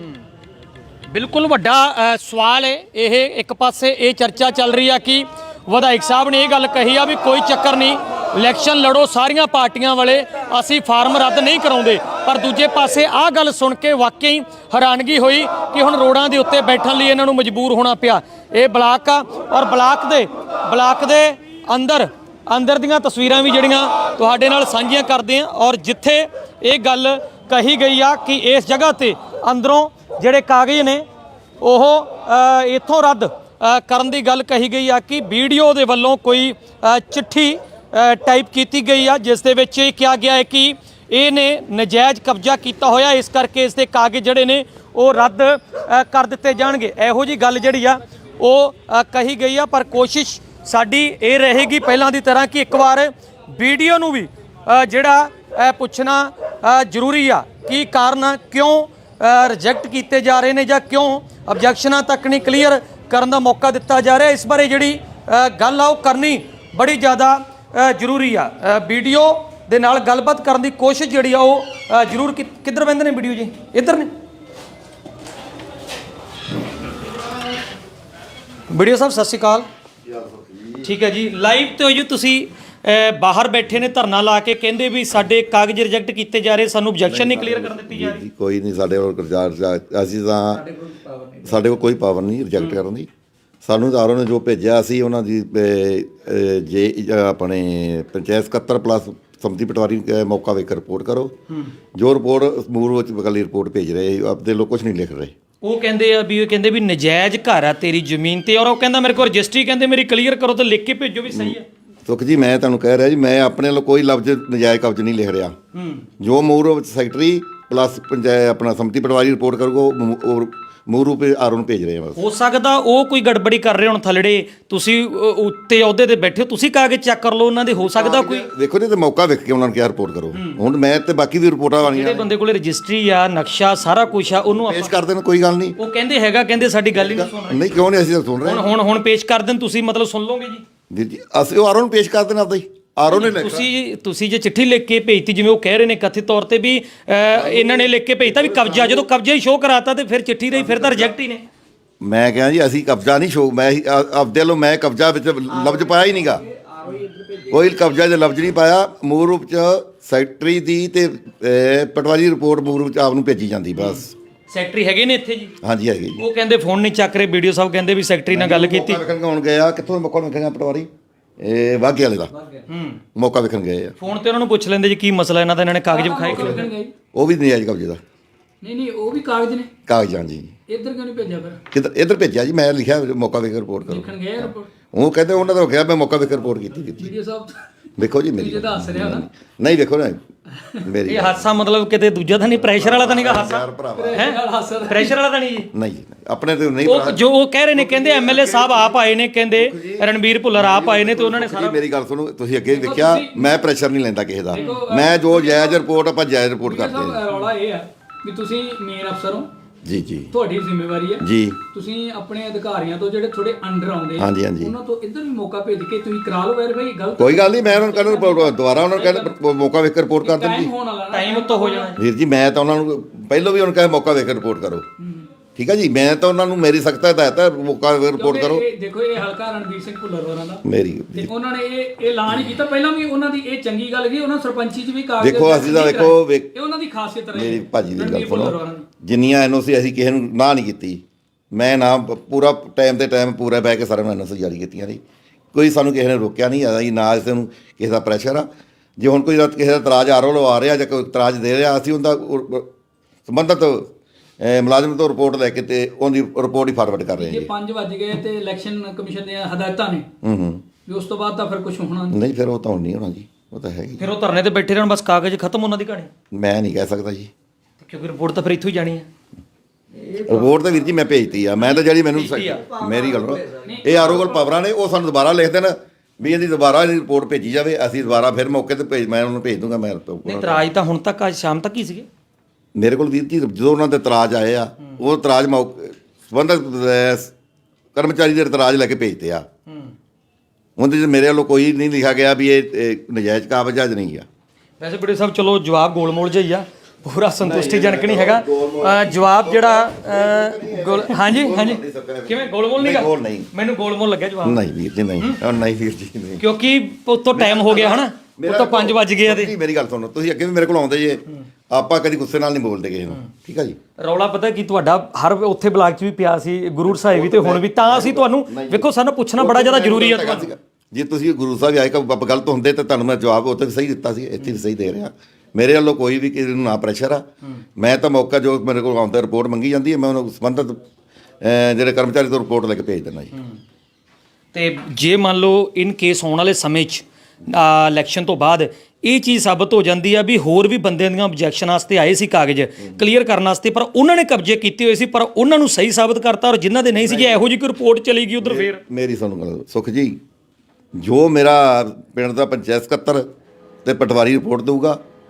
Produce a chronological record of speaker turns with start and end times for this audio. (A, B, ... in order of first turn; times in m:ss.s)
0:01.1-0:31.0 A
0:31.6-1:14.1 A
1:18.7-1:19.6 A
1:20.0-1:20.9 B
1:20.8-1:28.2 A
1:27.0-1:33.1 B
1:33.6-1:41.4 B
1:41.9-1:45.3 B
1:45.6-1:51.6 A
1:51.3-1:55.6 B
1:55.7-1:56.0 A
1:56.2-2:02.2 B
2:02.2-2:08.5 A
2:07.8-2:12.3 B
2:10.3-2:10.6 A
2:11.8-2:14.9 A
2:14.6-2:15.8 B
2:15.8-2:17.7 A
2:16.9-2:18.7 B
2:18.4-2:20.6 A
2:20.9-2:23.7 B
2:23.1-2:31.4 A
2:27.3-2:29.0 B
2:30.5-2:31.1 B
2:32.0-2:36.4 B
2:37.4-2:44.1 B
2:43.8-2:45.5 A
2:45.6-2:46.2 B
2:46.2-2:49.0 A
2:48.3-2:52.3 B
2:52.7-2:53.0 A
2:53.1-2:54.0 B
2:54.0-2:56.6 A
2:55.9-2:56.9 C
2:56.3-2:58.0 B
2:58.6-2:59.7 C
2:59.9-3:00.5 B
3:00.7-3:01.6 C
3:01.7-3:07.1 B
3:03.9-3:04.6 C
3:07.0-3:07.6 C
3:08.0-3:10.2 B
3:08.3-3:09.2 C
3:10.8-3:11.4 B
3:11.1-3:15.7 A
3:12.5-3:14.3 B
3:14.0-3:15.2 C
3:15.7-3:17.2 B
3:16.8-3:21.8 A
3:17.7-3:18.9 B
3:19.6-3:27.2 B
3:22.7-3:23.4 C
3:24.5-3:25.9 C
3:26.6-3:29.5 C
3:29.8-3:30.3 B
3:30.3-3:39.3 C
3:31.2-3:31.6 B
3:34.2-3:34.7 B
3:37.2-3:40.7 B
3:40.2-3:41.9 C
3:41.1-3:42.0 A
3:42.0-3:44.8 B
3:45.6-3:48.7 B
3:48.2-3:50.6 C
3:50.6-3:51.3 B
3:51.1-3:58.8 C
3:55.2-3:56.6 B
3:57.3-4:05.0 B
4:05.5-4:12.7 B
4:13.3-4:17.5 B
4:17.2-4:20.1 C
4:20.2-4:20.6 B
4:20.8-4:22.2 C
4:22.1-4:24.1 B
4:24.0-4:26.1 A
4:26.3-4:27.3 B
4:27.8-4:29.1 A
4:30.2-4:40.6 B
4:32.1-4:32.6 A
4:33.6-4:34.4 C
4:40.2-4:42.1 A
4:42.7-4:47.3 B
4:47.9-4:49.4 B
4:50.8-4:54.2 B
4:54.8-5:04.6 A
4:57.4-5:03.5 B
5:04.4-5:06.4 B
5:06.4-5:09.5 A
5:07.3-5:13.8 B
5:14.0-5:20.5 A
5:16.8-5:30.8 B
5:31.4-5:33.3 B
5:34.5-5:48.8 A
5:47.0-5:47.4 B
5:48.4-5:50.2 B
5:51.0-5:53.3 B
5:53.8-5:55.0 B